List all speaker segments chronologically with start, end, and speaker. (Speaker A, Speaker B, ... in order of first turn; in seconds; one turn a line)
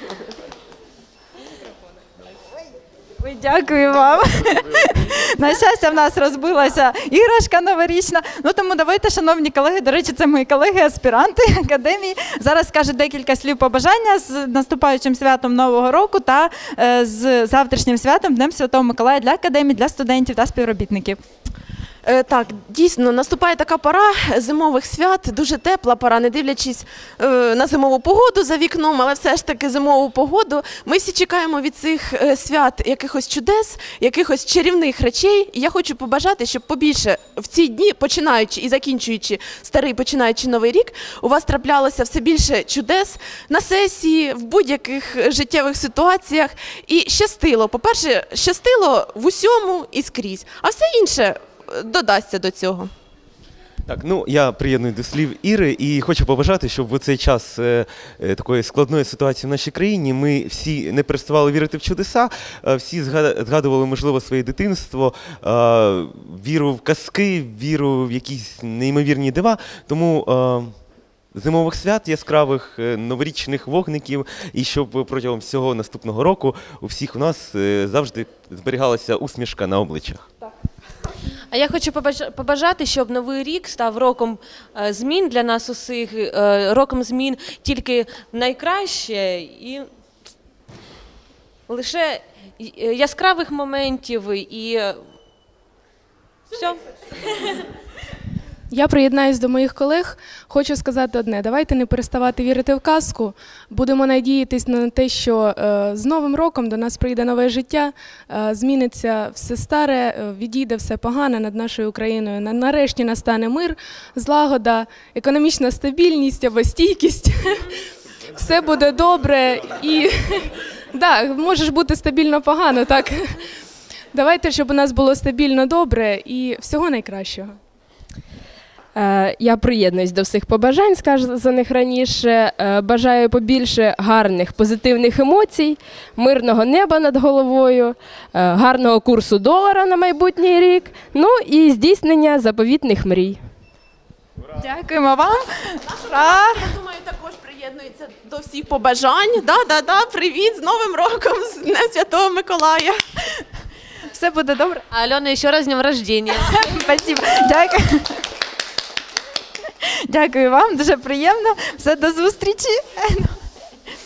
Speaker A: 3.2-21.2
Speaker B: 22.0-52.9
Speaker C: 53.9-70.7
Speaker C: 71.3-80.2
Speaker D: 81.5-89.9
Speaker D: 91.7-95.0
Speaker D: 96.5-96.8
Speaker E: 98.7-117.4
Speaker E: 118.4-120.1
Speaker E: 120.9-123.2
Speaker E: 124.1-127.6
Speaker F: 128.9-143.4
Speaker A: 144.6-146.6
Speaker B: 145.9-152.9
Speaker A: 154.1-154.8
Speaker D: 154.9-156.9
Speaker A: 156.3-158.1
Speaker A: 160.1-163.3